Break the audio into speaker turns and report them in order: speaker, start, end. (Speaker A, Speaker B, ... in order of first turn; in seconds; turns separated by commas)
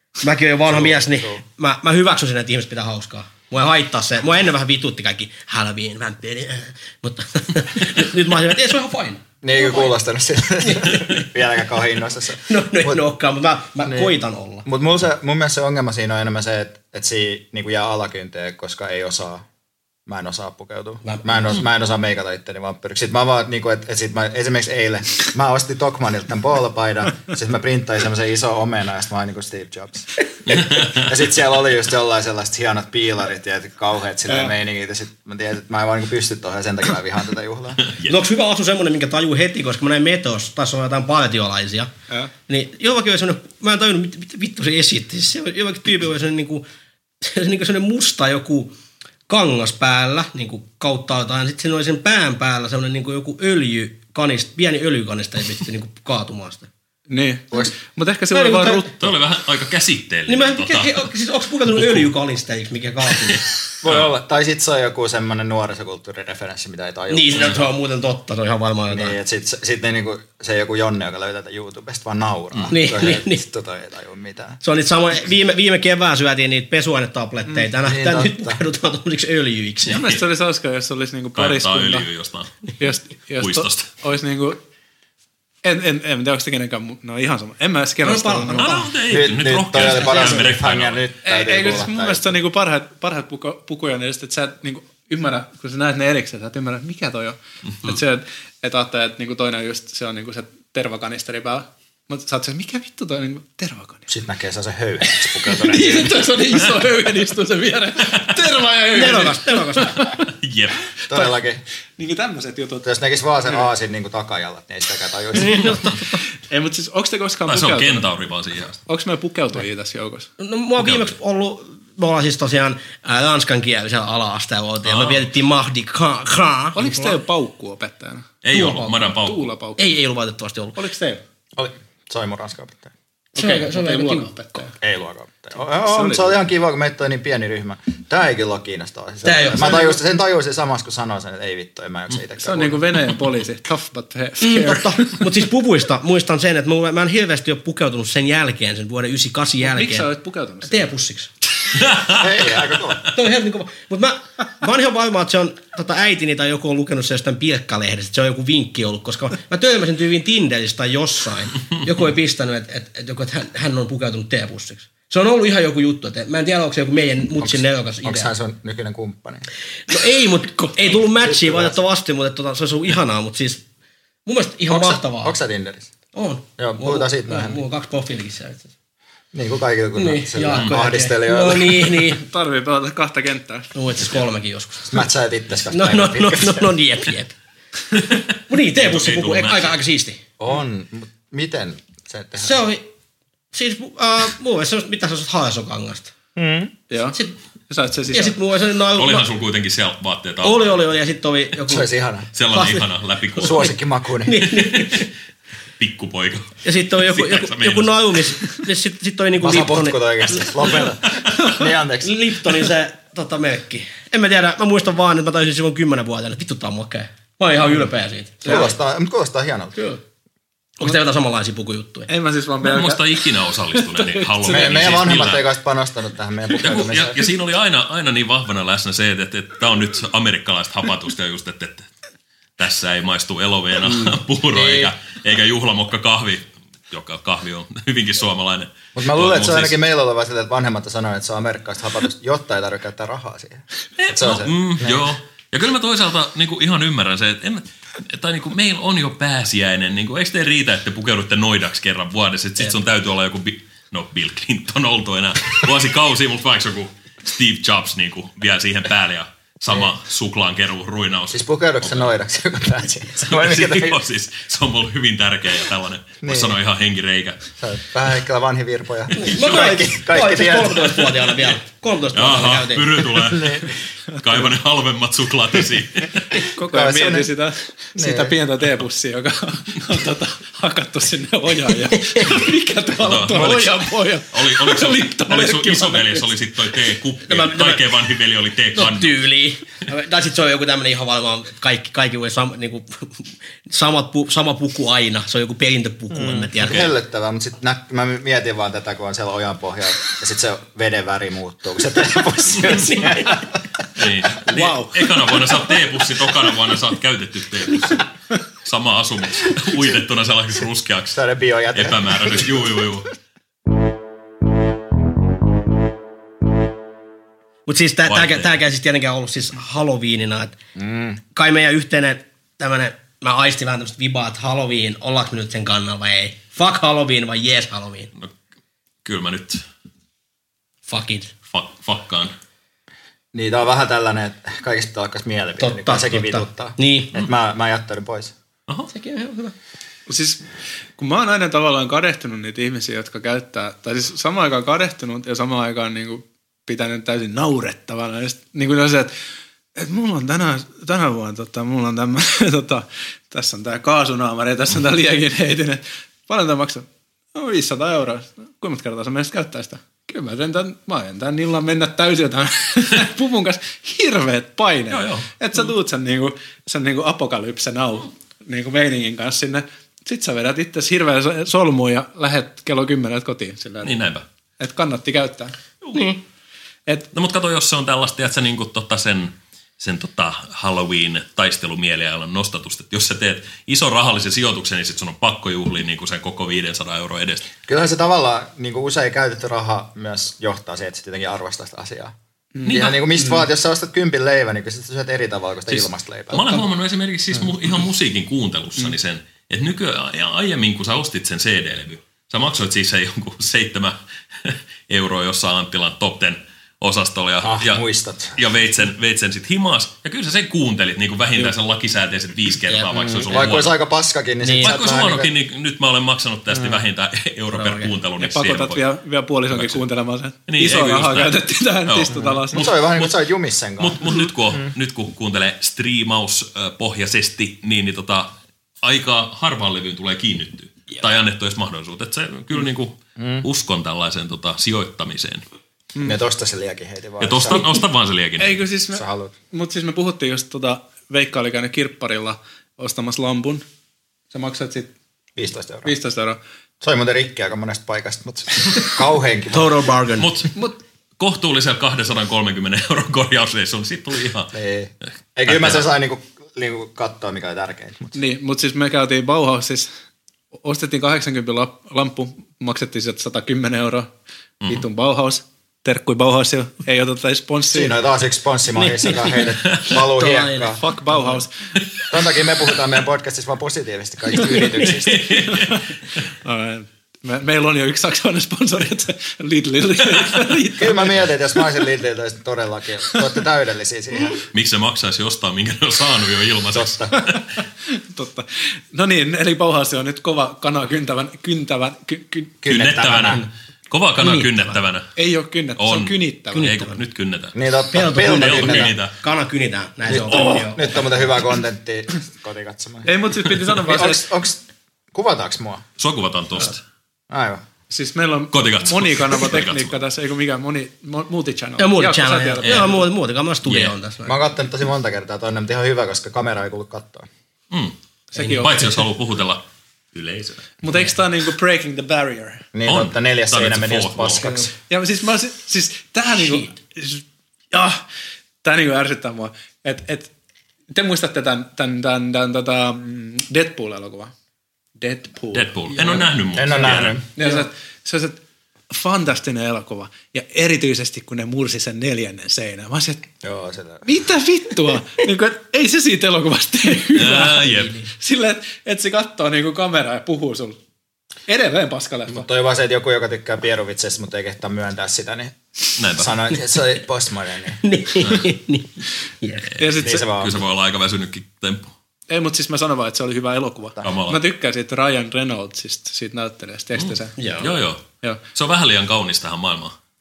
Speaker A: 0.2-9.9, Speaker B: 0.7-1.4, Speaker B: 9.4-13.0, Speaker A: 10.6-11.3, Speaker A: 12.4-14.7, Speaker B: 13.8-19.4, Speaker B: 20.1-37.9, Speaker A: 21.0-21.6, Speaker C: 37.9-38.2, Speaker A: 38.0-41.9, Speaker A: 42.5-46.6, Speaker A: 47.2-48.7, Speaker A: 49.3-56.7, Speaker D: 57.1-59.1, Speaker A: 58.3-58.9, Speaker C: 59.0-61.0, Speaker A: 60.3-63.5, Speaker B: 63.8-67.7, Speaker A: 67.1-69.2, Speaker B: 68.9-74.6, Speaker A: 72.7-73.4, Speaker A: 74.6-80.1, Speaker B: 77.8-78.6, Speaker D: 79.9-82.1, Speaker C: 81.4-82.5, Speaker D: 82.8-84.6, Speaker C: 83.4-83.9, Speaker D: 85.6-88.8, Speaker A: 88.0-88.9, Speaker C: 88.6-91.0, Speaker B: 89.1-92.4, Speaker A: 89.8-90.4, Speaker D: 91.2-104.1, Speaker B: 104.1-106.2, Speaker D: 105.2-110.3, Speaker A: 108.9-110.0, Speaker C: 110.4-110.9, Speaker B: 111.1-111.6, Speaker D: 112.0-112.9, Speaker B: 112.8-116.0, Speaker A: 115.4-116.2, Speaker D: 116.5-118.1, Speaker C: 117.5-118.8, Speaker D: 118.9-120.3, Speaker A: 120.4-127.2, Speaker C: 120.8-121.1, Speaker C: 124.8-125.2, Speaker D: 126.8-129.8, Speaker C: 128.4-129.5, Speaker A: 128.5-129.1, Speaker A: 129.8-130.8, Speaker D: 130.8-131.2, Speaker B: 131.6-132.9, Speaker A: 133.4-134.3, Speaker D: 133.4-134.8, Speaker B: 134.8-142.8, Speaker D: 135.9-136.4, Speaker A: 139.2-140.0, Speaker D: 142.4-145.2, Speaker A: 144.4-150.1, Speaker D: 149.6-150.9, Speaker A: 150.6-151.3, Speaker C: 151.8-152.2, Speaker B: 152.1-153.0, Speaker A: 153.1-168.3, Speaker B: 167.4-169.5, Speaker A: 169.9-173.6, Speaker B: 171.0-171.8, Speaker A: 174.3-175.4, Speaker B: 174.7-175.9, Speaker A: 176.1-178.7, Speaker B: 176.6-177.6, Speaker B: 179.3-181.9, Speaker A: 180.0-182.2, Speaker D: 182.1-183.7, Speaker A: 183.7-185.1, Speaker B: 184.8-186.7, Speaker A: 185.7-187.3, Speaker A: 188.5-190.2, Speaker C: 188.8-189.8, Speaker B: 190.4-192.6, Speaker A: 192.4-192.8, Speaker A: 193.5-196.1, Speaker B: 196.4-196.7, Speaker D: 196.9-197.2, Speaker A: 197.1-197.4, Speaker D: 197.7-198.4, Speaker A: 198.1-199.3, Speaker C: 198.9-200.7, Speaker A: 200.4-201.9, Speaker B: 201.7-202.3, Speaker C: 202.3-203.7, Speaker A: 202.5-203.7, Speaker B: 203.4-204.7, Speaker A: 204.2-205.1, Speaker C: 205.8-208.3, Speaker A: 206.6-210.8, Speaker B: 209.4-212.4, Speaker A: 212.0-218.8, Speaker B: 218.4-219.8, Speaker A: 219.8-220.0, Speaker A: 220.8-222.1, Speaker D: 222.1-225.2, Speaker C: 222.6-225.5, Speaker B: 224.4-227.2, Speaker C: 226.5-231.9, Speaker C: 232.6-239.8, Speaker B: 233.9-234.9, Speaker B: 238.9-245.0, Speaker C: 244.0-262.1, Speaker B: 261.3-264.0, Speaker C: 263.3-267.4, Speaker B: 266.2-266.6, Speaker B: 267.6-271.1, Speaker A: 269.1-273.1, Speaker C: 272.1-276.3, Speaker B: 273.3-273.7, Speaker D: 274.2-274.4, Speaker D: 276.4-286.3, Speaker B: 276.6-277.3, Speaker B: 277.9-278.4, Speaker A: 281.9-282.3, Speaker C: 282.2-289.2, Speaker A: 287.2-287.9, Speaker A: 288.7-296.9, Speaker B: 296.1-303.5, Speaker C: 296.7-296.9, Speaker C: 302.6-302.9, Speaker A: 302.6-303.4, Speaker C: 303.9-308.1, Speaker A: 304.5-304.8, Speaker C: 308.6-311.2, Speaker B: 311.1-312.5, Speaker C: 311.7-313.1, Speaker A: 317.7-320.6, Speaker C: 318.1-318.5, Speaker B: 320.8-321.2, Speaker A: 321.3-328.1, Speaker C: 329.1-329.6, Speaker A: 330.9-331.3, Speaker C: 331.5-332.3, Speaker B: 333.3-338.3, Speaker A: 335.6-337.3, Speaker A: 338.9-339.5, Speaker D: 340.1-340.4, Speaker D: 341.0-349.1, Speaker D: 349.8-373.9, Speaker C: 364.9-365.3, Speaker C: 373.8-374.2, Speaker D: 374.6-375.5, Speaker A: 375.9-376.2, Speaker C: 377.1-387.5, Speaker B: 387.7-392.1, Speaker D: 392.6-393.4, Speaker C: 392.7-393.0, Speaker B: 392.7-396.6, Speaker C: 395.7-407.8, Speaker B: 407.4-408.4, Speaker C: 408.4-413.8, Speaker A: 412.7-413.1, Speaker B: 413.1-415.3, Speaker A: 414.4-414.8, Speaker C: 414.6-418.8, Speaker A: 417.5-417.9, Speaker D: 418.2-422.7, Speaker C: 419.5-419.9, Speaker C: 420.5-423.2, Speaker B: 422.5-424.7, Speaker C: 423.8-435.4, Speaker B: 433.2-433.4, Speaker B: 436.0-437.7, Speaker C: 437.2-438.6, Speaker D: 438.4-443.6, Speaker B: 438.9-439.4, Speaker D: 444.3-444.9, Speaker B: 445.4-445.9, Speaker D: 445.8-446.4, Speaker B: 446.8-449.8, Speaker A: 449.5-450.3, Speaker C: 450.2-450.6, Speaker C: 451.2-454.5, Speaker B: 454.5-458.2, Speaker C: 455.5-455.9, Speaker D: 458.1-459.9, Speaker D: 460.5-464.1, Speaker D: 464.7-468.0, Speaker B: 467.7-470.8, Speaker A: 468.8-471.4, Speaker D: 470.8-471.5, Speaker B: 472.1-475.5, Speaker C: 474.8-475.8, Speaker D: 475.4-475.8, Speaker D: 476.4-481.3, Speaker B: 480.8-484.4, Speaker C: 484.5-487.4, Speaker B: 486.7-487.1, Speaker D: 487.9-492.6, Speaker B: 492.6-493.4, Speaker C: 492.7-495.1, Speaker A: 494.2-494.8, Speaker D: 495.2-496.7, Speaker C: 495.8-497.6, Speaker A: 496.5-497.0, Speaker B: 497.5-498.9, Speaker A: 497.9-501.1, Speaker C: 498.2-499.1, Speaker B: 500.1-503.1, Speaker D: 503.1-504.3, Speaker B: 503.8-504.6, Speaker B: 505.1-505.8, Speaker C: 506.0-506.8, Speaker B: 507.3-507.6, Speaker D: 507.9-513.1, Speaker C: 508.5-509.9, Speaker A: 511.8-514.4, Speaker C: 512.6-513.0, Speaker C: 513.6-513.9, Speaker B: 514.3-517.3, Speaker C: 517.7-520.8, Speaker D: 518.3-519.0, Speaker D: 520.8-522.6, Speaker B: 522.7-524.7, Speaker C: 522.9-524.6, Speaker D: 524.9-528.0, Speaker D: 528.6-530.3, Speaker D: 530.9-534.3, Speaker D: 535.0-543.3, Speaker C: 535.5-537.2, Speaker B: 536.5-537.2, Speaker B: 543.4-544.0, Speaker D: 544.0-550.8, Speaker C: 547.1-548.0, Speaker D: 551.5-552.5, Speaker B: 552.3-555.5, Speaker C: 556.0-556.4, Speaker B: 556.1-557.8, Speaker A: 557.8-559.7, Speaker D: 559.8-560.2, Speaker C: 559.8-561.9, Speaker B: 560.0-560.5, Speaker D: 562.3-567.4, Speaker C: 564.0-564.4, Speaker C: 567.0-570.0, Speaker A: 567.4-567.7